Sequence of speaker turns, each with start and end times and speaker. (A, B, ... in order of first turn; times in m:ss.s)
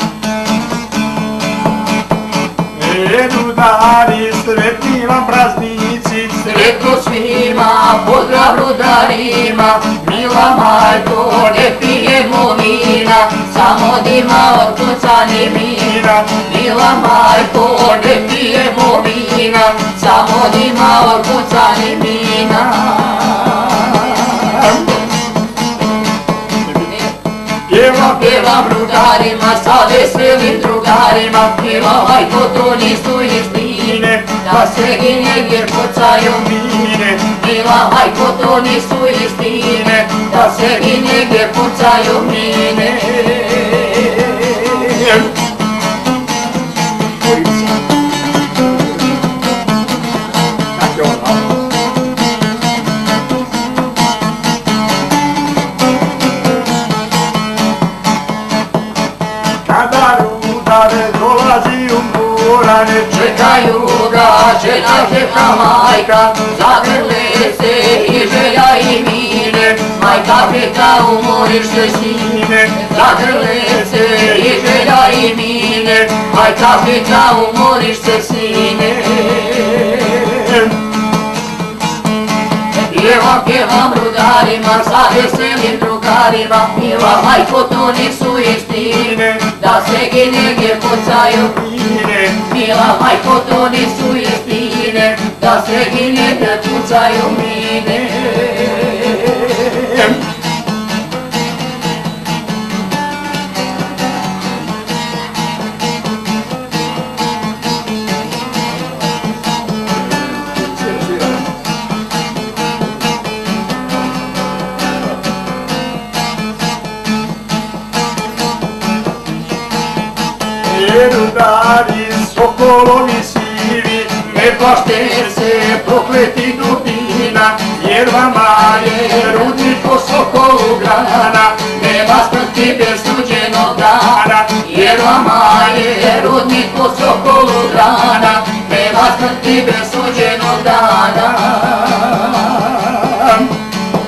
0:02.7-0:06.4 A
0:06.4-0:24.7 B
0:27.7-0:45.1 B
0:34.0-0:34.4 A
0:50.8-0:51.4 A
0:59.6-1:03.1 A
1:03.0-1:20.7 B
1:22.7-1:40.2 B
1:31.7-1:32.2 A
2:00.6-2:04.3 A
2:04.3-2:07.6 B
2:07.5-2:09.6 A
2:08.4-2:23.5 B
2:11.2-2:11.6 A